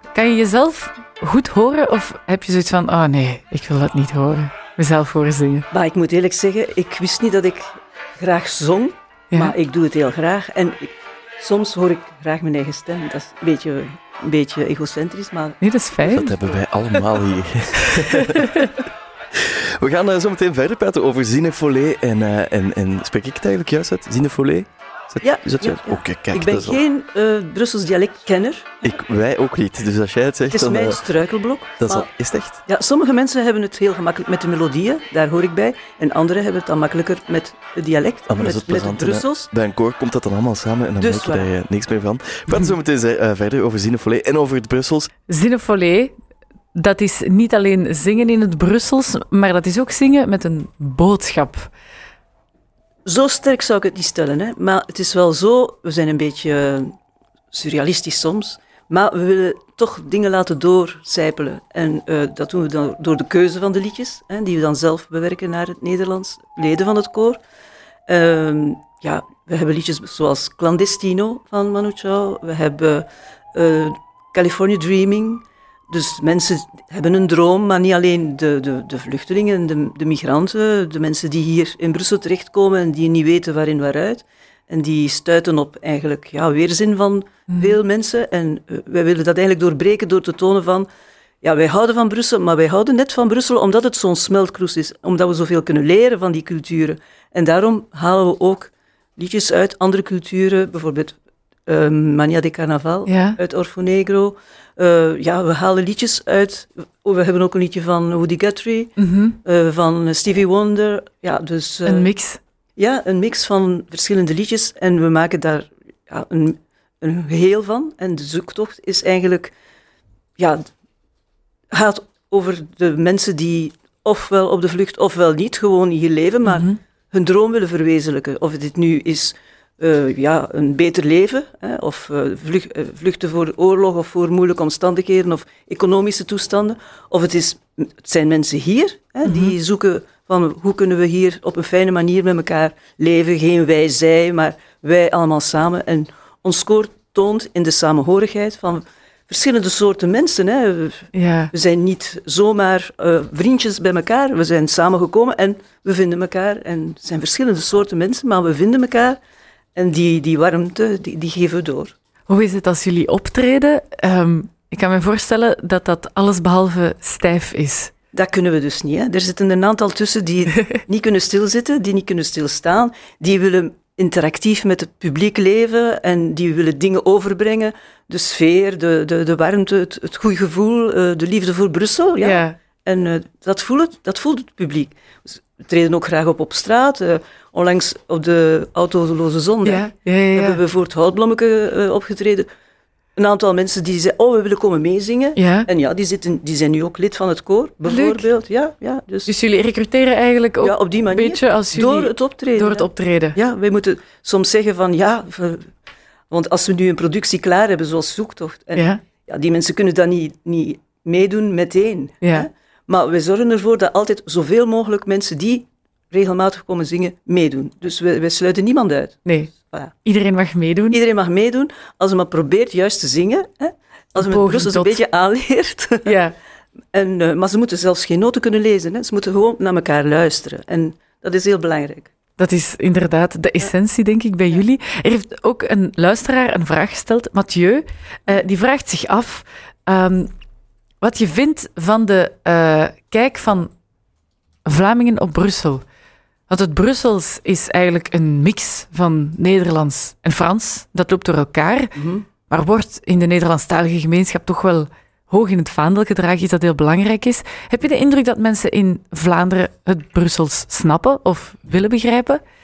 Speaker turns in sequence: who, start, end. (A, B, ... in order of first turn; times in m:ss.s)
0:00.1-0:05.7 A
0:05.7-0:15.6 B
0:15.6-0:16.4 A
0:16.0-0:18.7 C
0:18.1-0:18.7 A
0:19.3-0:26.8 C
0:25.2-0:28.8 B
0:28.8-0:31.0 C
0:30.5-0:32.1 B
0:31.8-0:32.6 C
0:32.6-0:39.5 B
0:38.3-0:45.1 C
0:41.0-0:41.5 B
0:45.3-0:46.1 A
0:46.7-0:51.7 A
0:53.0-0:56.9 B
0:57.5-1:07.4 B
1:08.1-1:30.9 B
1:27.5-1:27.8 A
1:31.4-1:52.1 B
1:43.1-1:43.4 A
1:49.0-1:49.4 A
1:51.8-1:52.4 A
1:52.8-1:59.5 B
2:00.4-2:00.7 B
2:01.7-2:39.2 B
2:06.4-2:06.8 A
2:19.2-2:19.5 A
2:31.1-2:31.5 A
2:39.7-2:41.9 B
2:42.3-2:47.9 A
2:48.1-3:12.5 B
3:02.2-3:02.6 A
3:09.6-3:10.6 A
3:13.2-3:19.3 B
3:15.4-3:15.7 A
3:17.8-3:18.3 A
3:19.3-3:23.4 A
3:20.6-3:25.7 B
3:26.3-3:39.9 B
3:28.7-3:29.0 A
3:32.2-3:32.5 A
3:39.2-3:39.5 A
3:40.0-3:41.0 A
3:40.9-3:46.2 B
3:44.2-3:45.0 A
3:46.0-3:46.3 A
3:46.9-3:52.1 B
3:52.4-4:00.3 A
4:01.0-4:03.7 A
4:04.6-4:05.8 A
4:06.5-4:11.9 A
4:12.0-4:12.2 B
4:12.5-4:22.4 A